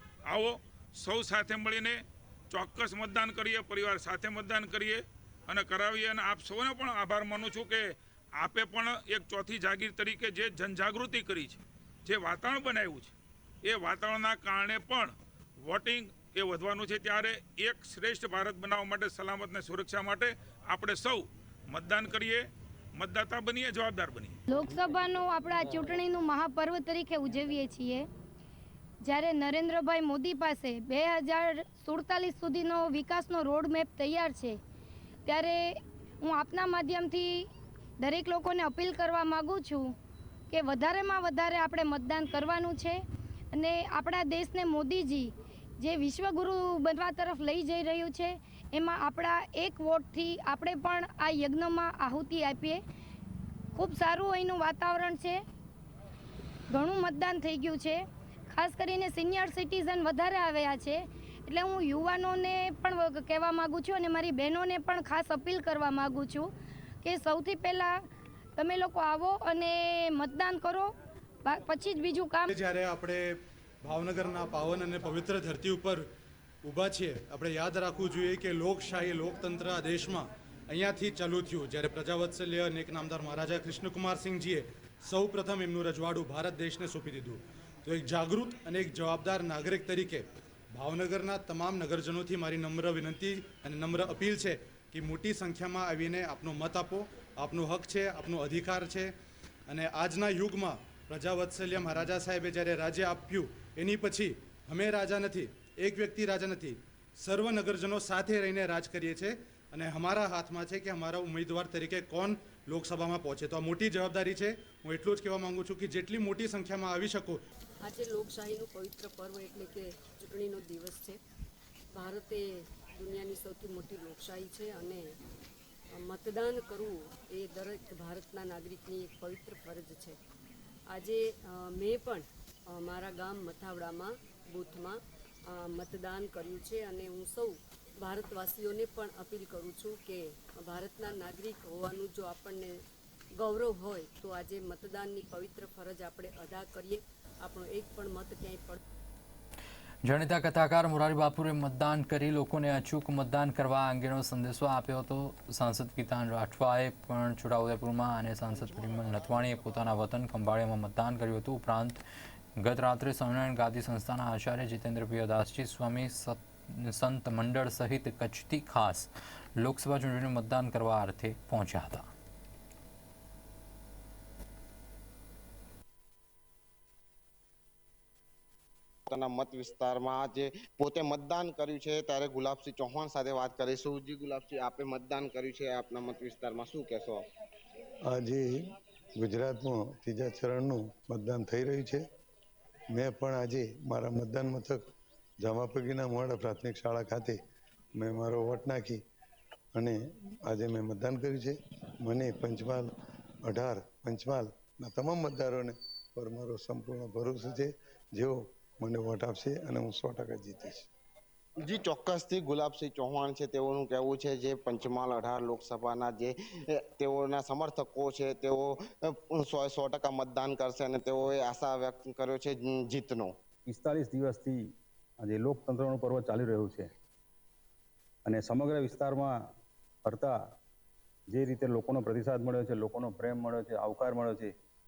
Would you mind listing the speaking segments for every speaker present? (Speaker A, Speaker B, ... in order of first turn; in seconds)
Speaker A: 0.3-24.4
Speaker B: 24.5-28.1, 29.0-34.6, 35.2-37.5, 38.0-39.9, 40.5-43.0, 43.5-52.8, 53.8-55.4, 56.7-66.5, 67.0-68.0, 68.5-72.5
Speaker C: 72.5-76.1, 76.6-99.1, 99.7-117.4
Speaker D: 117.8-121.2, 121.9-125.1, 125.9-130.2, 130.9-142.8, 143.4-148.8
Speaker E: 150.0-162.0, 162.6-172.1
Speaker F: 158.6-159.9, 179.1-187.2, 211.6-223.3
Speaker G: 188.1-192.0, 192.9-194.9, 195.4-197.4, 198.0-199.0, 199.8-202.9, 203.4-210.9
Speaker H: 223.7-224.7, 225.2-226.9, 228.2-229.4, 230.0-230.3, 231.3-234.5